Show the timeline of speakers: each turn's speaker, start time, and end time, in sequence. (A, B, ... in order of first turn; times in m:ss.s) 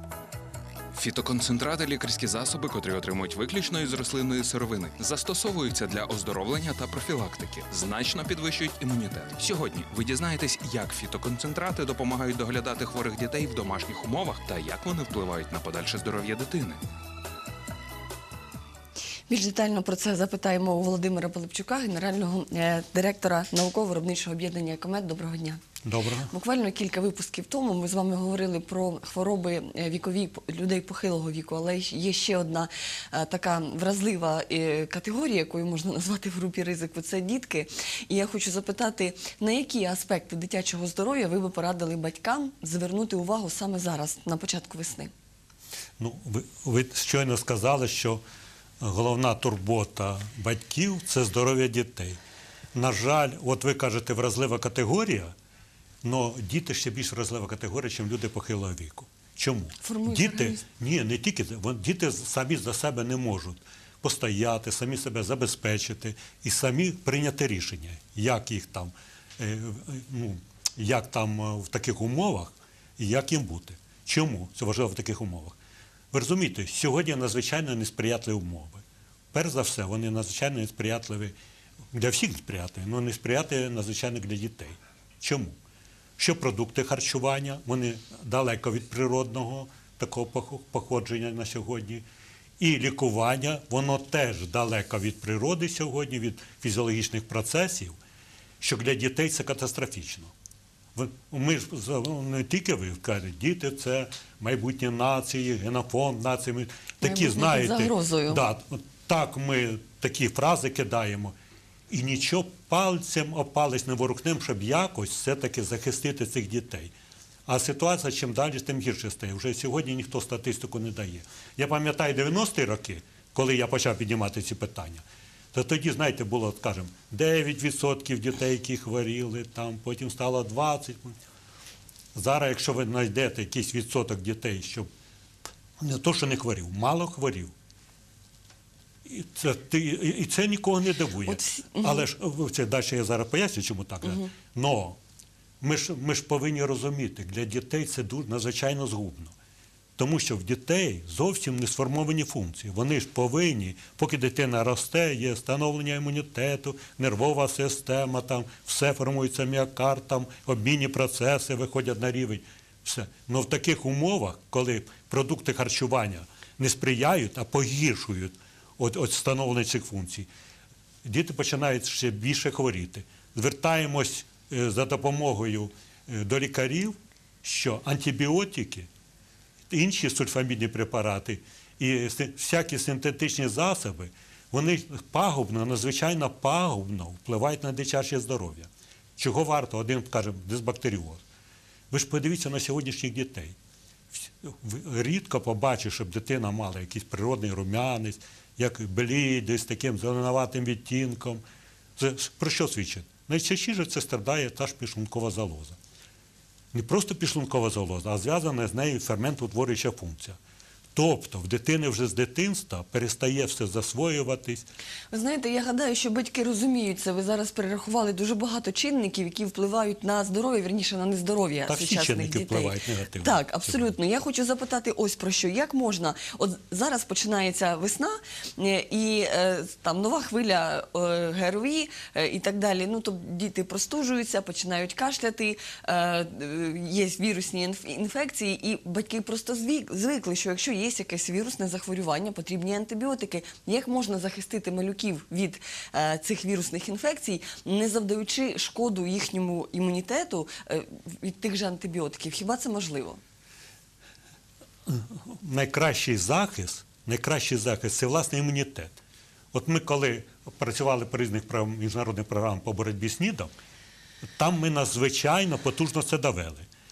0:01.0-0:16.8 A
0:19.3-0:25.6 B
0:25.8-0:26.3 C
0:26.3-0:45.1 B
0:46.0-0:48.2 C
0:48.8-0:52.2 C
0:52.8-0:55.3 C
0:56.0-1:15.6 C
0:59.8-1:00.6 B
1:16.1-1:21.4 C
1:21.9-1:25.6 C
1:26.2-1:32.0 C
1:32.6-1:38.0 C
1:38.6-1:40.3 C
1:41.0-1:51.4 C
1:47.0-1:48.4 B
1:51.9-1:56.9 C
1:57.5-2:11.2 C
2:12.2-2:14.9 C
2:15.8-2:17.5 C
2:19.1-2:25.0 C
2:21.3-2:22.1 B
2:25.6-2:29.3 C
2:30.0-2:50.3 C
2:51.0-2:58.9 C
2:59.7-3:11.2 C
3:11.9-3:13.6 C
3:14.1-3:21.4 C
3:22.0-3:25.8 C
3:26.7-3:30.4 C
3:31.0-3:34.7 C
3:35.1-4:13.2 B
3:41.7-3:43.9 C
4:14.9-4:19.0 C
4:19.5-4:23.5 C
4:24.4-4:26.7 C